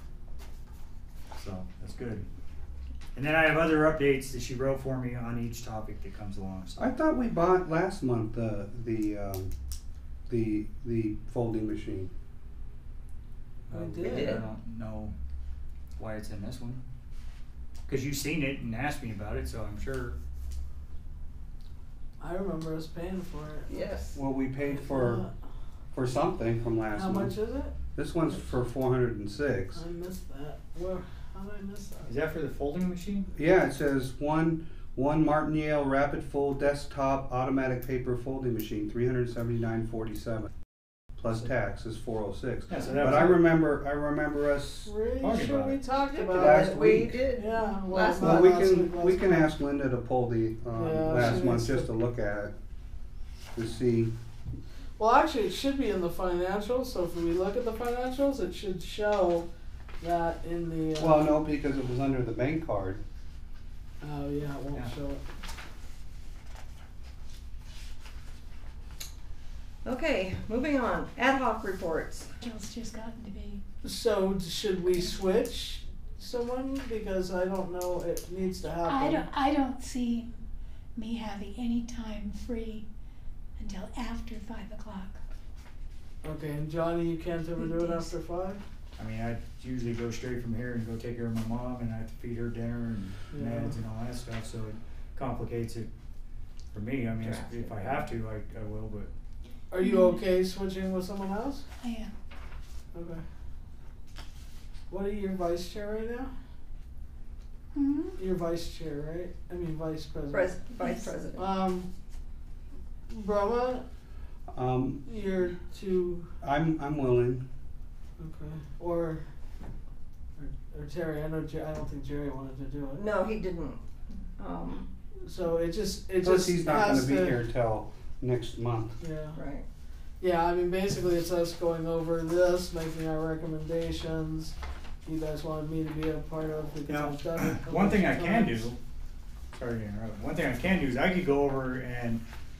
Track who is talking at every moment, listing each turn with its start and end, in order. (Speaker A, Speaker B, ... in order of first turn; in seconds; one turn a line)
Speaker A: 1.3-2.2
Speaker A: 3.1-6.9
Speaker B: 6.8-9.5
Speaker B: 10.3-12.1
Speaker A: 13.7-15.1
Speaker C: 13.7-14.4
Speaker D: 14.0-14.4
Speaker A: 16.0-16.8
Speaker A: 17.9-20.2
Speaker C: 22.2-23.9
Speaker D: 23.7-24.2
Speaker B: 24.1-25.2
Speaker C: 24.6-25.3
Speaker B: 25.9-27.3
Speaker C: 26.9-27.8
Speaker B: 27.9-29.8
Speaker C: 29.7-32.1
Speaker A: 32.1-33.3
Speaker B: 33.3-40.5
Speaker B: 41.2-44.9
Speaker A: 42.7-43.4
Speaker C: 42.8-43.2
Speaker C: 44.8-46.8
Speaker A: 45.2-45.8
Speaker D: 46.1-48.6
Speaker B: 46.3-47.2
Speaker C: 47.3-49.5
Speaker B: 48.2-52.5
Speaker C: 50.7-51.9
Speaker B: 53.5-54.1
Speaker C: 55.0-59.5
Speaker C: 60.0-61.4
Speaker B: 61.0-63.0
Speaker C: 64.0-65.2
Speaker D: 69.8-72.3
Speaker E: 72.4-73.6
Speaker C: 73.8-79.2
Speaker E: 78.8-80.3
Speaker E: 81.0-82.8
Speaker E: 83.6-85.2
Speaker C: 86.2-88.6
Speaker E: 87.6-88.1
Speaker A: 89.0-95.9
Speaker C: 93.3-93.8
Speaker A: 96.7-99.1
Speaker D: 97.2-98.0
Speaker C: 99.7-101.7
Speaker E: 99.8-100.2
Speaker E: 101.8-102.1
Speaker C: 102.9-103.2
Speaker C: 104.9-106.3
Speaker E: 107.7-108.2
Speaker C: 108.2-110.6
Speaker D: 110.3-111.4
Speaker E: 110.8-111.1
Speaker C: 111.4-111.9
Speaker C: 113.1-113.8
Speaker B: 114.5-115.0
Speaker C: 115.0-116.3
Speaker B: 116.4-117.4
Speaker C: 118.2-119.2
Speaker C: 120.4-123.0
Speaker D: 122.9-123.8
Speaker D: 124.4-124.9
Speaker C: 125.2-127.4
Speaker B: 126.2-129.0
Speaker C: 129.0-129.4
Speaker D: 129.3-129.6
Speaker C: 130.2-138.7
Speaker A: 136.9-138.8
Speaker A: 139.5-142.2